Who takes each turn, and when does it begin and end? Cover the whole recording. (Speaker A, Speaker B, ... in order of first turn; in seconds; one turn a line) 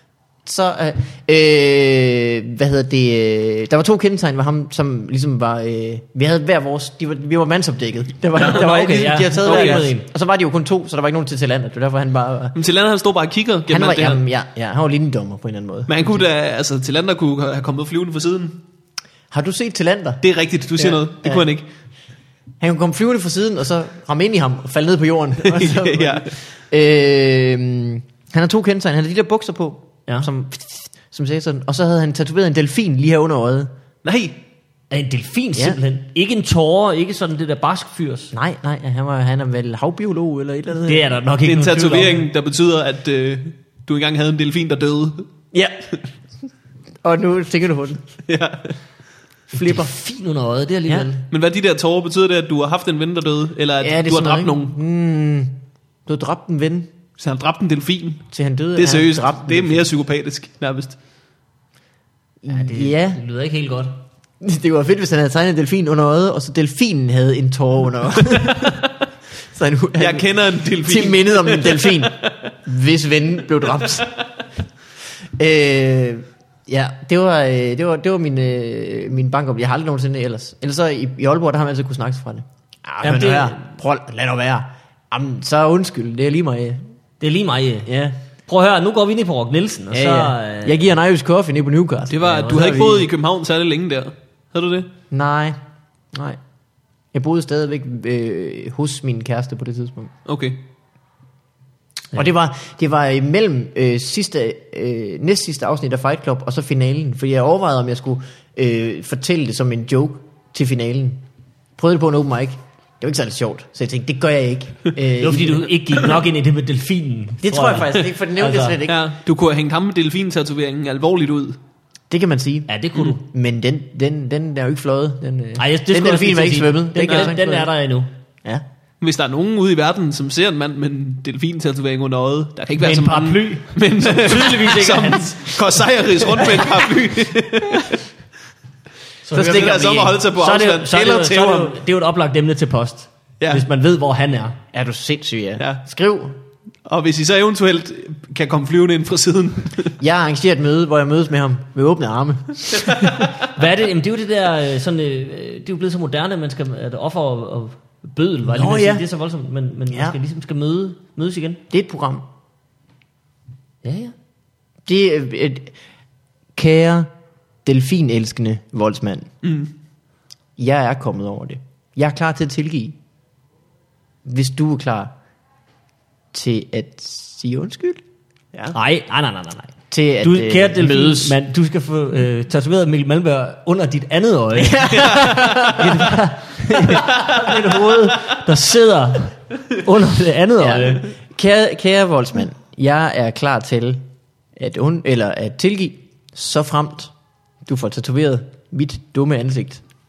Speaker A: 0.5-12.6
Speaker B: 8.4-10.1
Speaker C: 9.4-9.9
Speaker C: 12.6-14.2
Speaker A: 13.7-16.2
Speaker C: 15.9-18.6
Speaker A: 19.3-20.2
Speaker C: 20.2-21.7
Speaker A: 20.8-21.5
Speaker A: 22.6-33.7
Speaker C: 25.4-26.4
Speaker C: 34.0-34.4
Speaker B: 34.9-38.3
Speaker A: 38.3-41.1
Speaker B: 40.9-42.2
Speaker C: 41.4-45.2
Speaker A: 45.5-45.9
Speaker A: 47.0-48.1
Speaker C: 48.3-48.7
Speaker A: 49.5-49.9
Speaker B: 49.5-51.2
Speaker C: 51.3-54.8
Speaker A: 53.8-56.9
Speaker C: 57.2-61.0
Speaker A: 58.3-59.9
Speaker A: 62.4-63.2
Speaker B: 62.5-64.0
Speaker A: 64.4-68.9
Speaker A: 69.5-74.1
Speaker C: 70.0-72.3
Speaker C: 73.8-74.1
Speaker A: 75.4-86.8
Speaker B: 83.0-83.6
Speaker B: 87.2-87.9
Speaker A: 87.9-88.2
Speaker B: 88.5-90.8
Speaker A: 89.9-93.1
Speaker C: 92.1-94.9
Speaker B: 92.3-92.6
Speaker A: 95.1-95.6
Speaker A: 96.1-96.4
Speaker A: 97.1-100.1
Speaker C: 100.3-100.6
Speaker A: 102.1-111.2
Speaker A: 111.8-115.9
Speaker B: 115.2-118.8
Speaker A: 117.4-119.1
Speaker C: 118.9-121.6
Speaker A: 122.1-127.7
Speaker B: 122.7-123.2
Speaker B: 125.6-128.1
Speaker C: 129.0-138.0
Speaker B: 132.8-135.8
Speaker B: 136.4-136.8
Speaker B: 139.3-144.6
Speaker A: 139.3-140.2
Speaker C: 139.3-141.8
Speaker C: 143.4-143.7
Speaker A: 144.7-146.4
Speaker C: 146.9-149.9
Speaker A: 150.0-153.2
Speaker C: 152.8-153.3
Speaker B: 153.5-161.6
Speaker A: 158.5-159.1
Speaker A: 159.9-160.2
Speaker A: 161.7-162.3
Speaker B: 163.8-164.1
Speaker A: 164.9-165.7
Speaker A: 166.6-167.1
Speaker A: 167.7-169.3
Speaker C: 169.4-169.7
Speaker A: 170.6-173.0
Speaker A: 174.2-175.1
Speaker A: 176.3-178.0
Speaker B: 178.7-191.1
Speaker A: 179.9-181.3
Speaker A: 184.6-186.1
Speaker C: 187.2-187.5
Speaker A: 190.6-194.1
Speaker A: 194.6-197.1
Speaker A: 197.6-199.8